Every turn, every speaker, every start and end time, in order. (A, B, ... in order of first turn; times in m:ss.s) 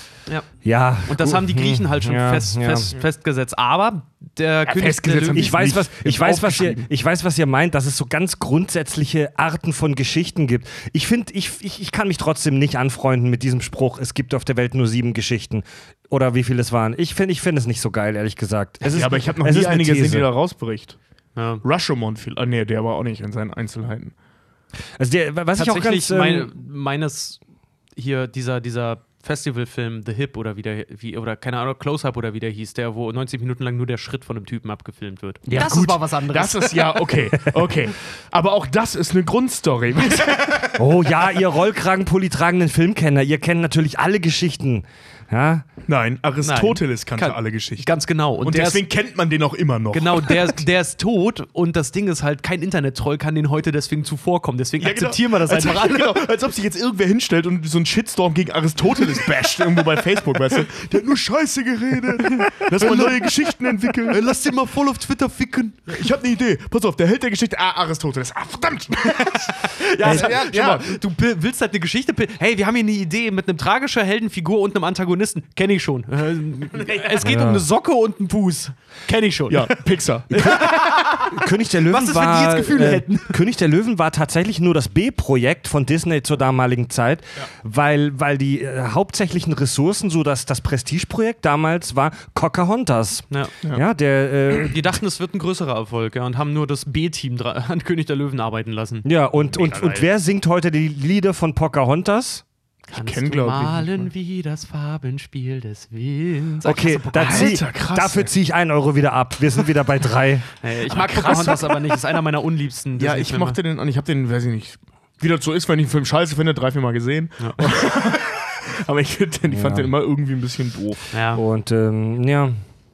0:00.3-0:05.6 A
0:00.6-0:02.9 B
0:04.6-0:06.9 C
0:05.3-0:20.3 B
0:18.9-0:21.0 C
0:21.4-0:21.6 A
0:21.6-0:24.1 C
0:25.0-0:26.5 B
0:25.6-0:27.4 A
0:27.9-0:37.2 A
0:35.5-0:40.6 C
0:40.1-0:40.6 A
0:40.8-0:45.7 B
0:45.8-0:47.9 C
0:46.4-0:48.8 A
0:48.4-0:50.6 C
0:49.9-0:56.2 A
0:54.8-1:04.2 C
1:02.3-1:03.3 A
1:04.0-1:06.0 A
1:05.9-1:11.0 C
1:09.1-1:23.4 A
1:16.7-1:17.3 C
1:17.2-1:17.6 B
1:19.5-1:21.0 C
1:20.4-1:34.8 B
1:34.6-1:40.1 A
1:39.0-1:42.4 B
1:42.9-1:44.1 C
1:42.9-1:47.6 A
1:46.6-1:50.5 B
1:47.2-1:48.3 C
1:50.6-1:53.6 A
1:50.9-1:52.0 C
1:53.0-2:01.1 C
1:59.5-1:59.9 B
2:01.1-2:01.4 A
2:01.3-2:02.6 B